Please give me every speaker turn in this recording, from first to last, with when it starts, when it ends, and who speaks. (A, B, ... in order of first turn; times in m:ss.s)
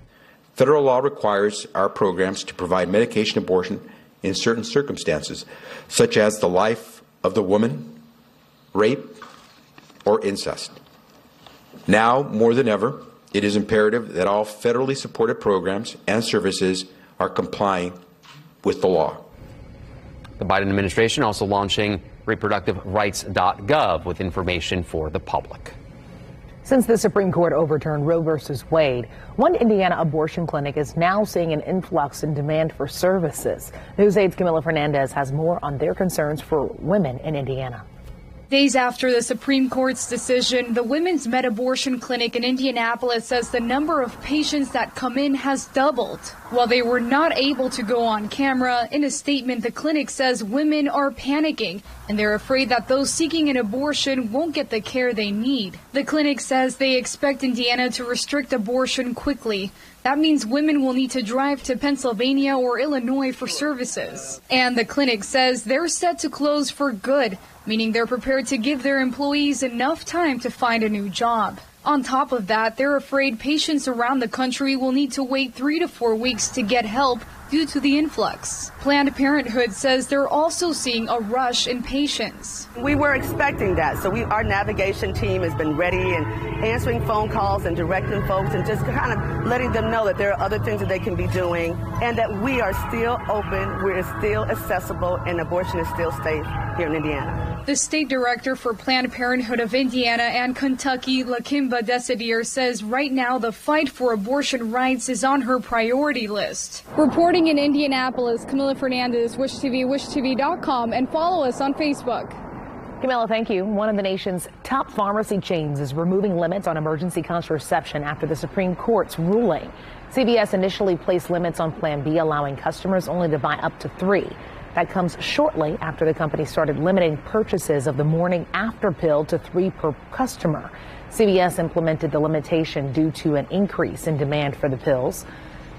0:00.6-0:08.0 A
0:08.7-0:09.2 A
0:10.0-0:10.8 A
0:11.9-0:18.0 A
0:18.6-0:19.2 A
0:20.4-0:25.7 B
0:26.6-0:37.8 C
0:38.5-1:22.7 D
1:22.8-1:37.4 E
1:37.6-1:52.4 D
1:53.0-2:15.2 C